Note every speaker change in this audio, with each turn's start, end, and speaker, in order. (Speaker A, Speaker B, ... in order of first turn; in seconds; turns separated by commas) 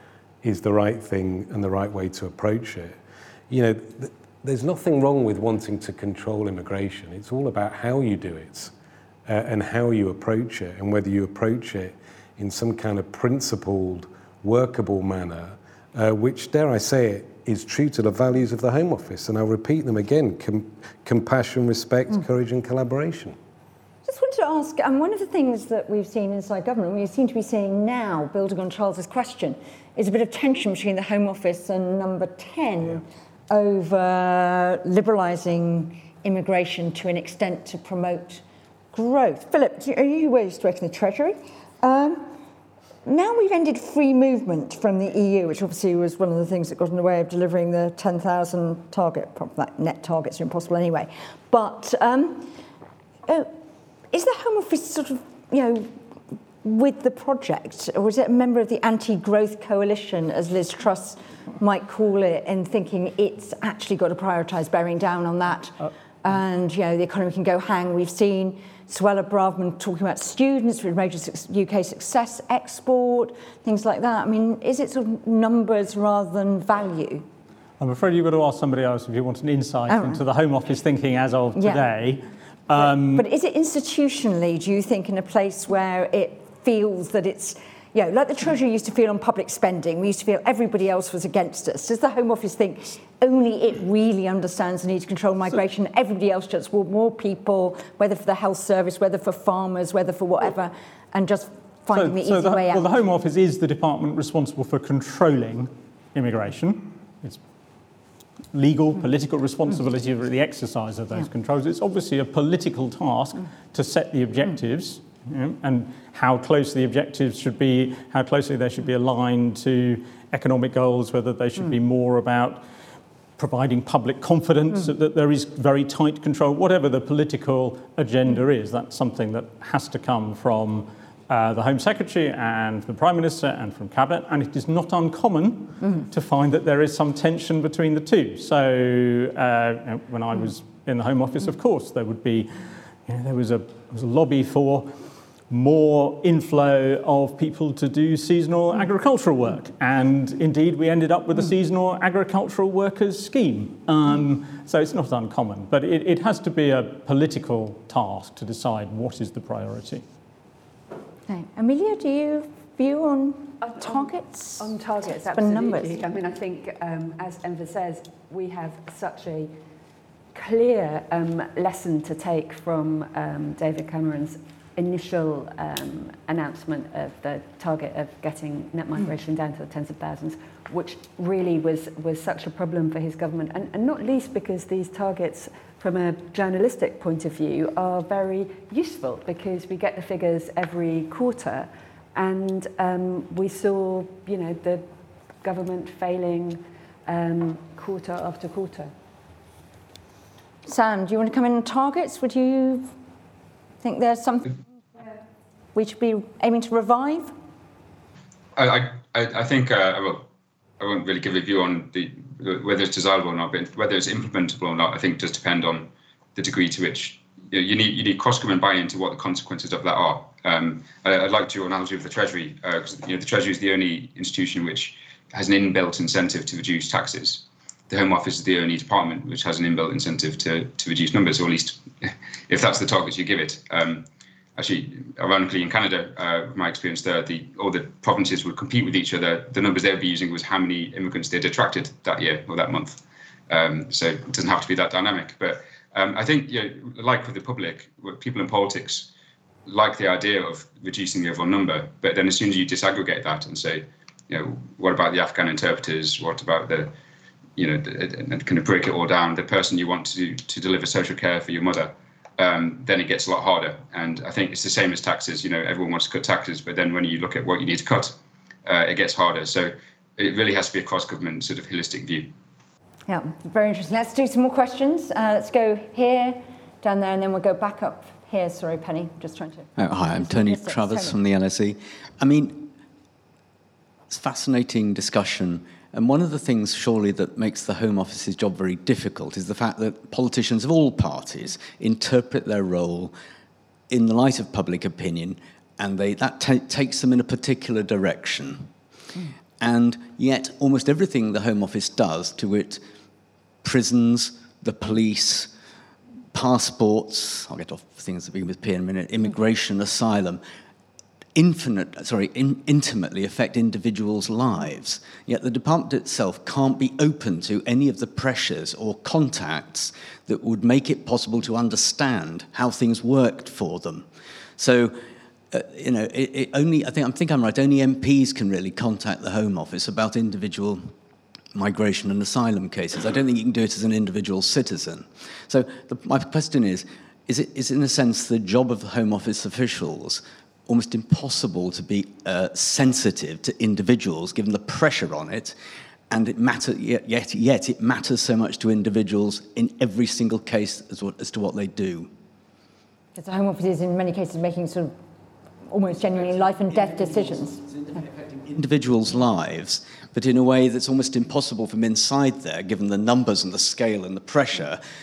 Speaker A: 0.4-3.0, Speaker A: 3.5-8.7, Speaker A: 9.3-23.4, Speaker B: 24.0-42.3, Speaker B: 43.0-52.5, Speaker B: 54.1-55.9, Speaker B: 56.6-77.2, Speaker C: 77.8-83.2, Speaker B: 79.9-80.2, Speaker B: 81.5-81.8, Speaker B: 82.8-102.9, Speaker C: 101.9-107.4, Speaker C: 108.5-122.6, Speaker C: 123.4-144.9, Speaker C: 145.5-160.0, Speaker B: 161.3-164.7, Speaker D: 163.6-169.5, Speaker B: 165.2-166.0, Speaker D: 170.3-194.8, Speaker D: 195.4-198.9, Speaker B: 200.7-202.9, Speaker B: 203.8-205.2, Speaker B: 205.7-207.3, Speaker E: 208.6-210.3, Speaker E: 210.8-249.1, Speaker E: 249.7-256.9, Speaker E: 257.6-272.3, Speaker B: 273.1-281.2, Speaker F: 279.8-282.7, Speaker F: 284.1-293.1, Speaker F: 293.9-298.7, Speaker F: 299.6-302.8, Speaker F: 303.6-305.5, Speaker F: 306.3-310.4, Speaker F: 311.3-325.0, Speaker F: 325.5-330.9, Speaker F: 331.5-345.6, Speaker F: 346.1-352.1, Speaker B: 353.1-354.9, Speaker B: 355.7-357.7, Speaker F: 358.2-364.8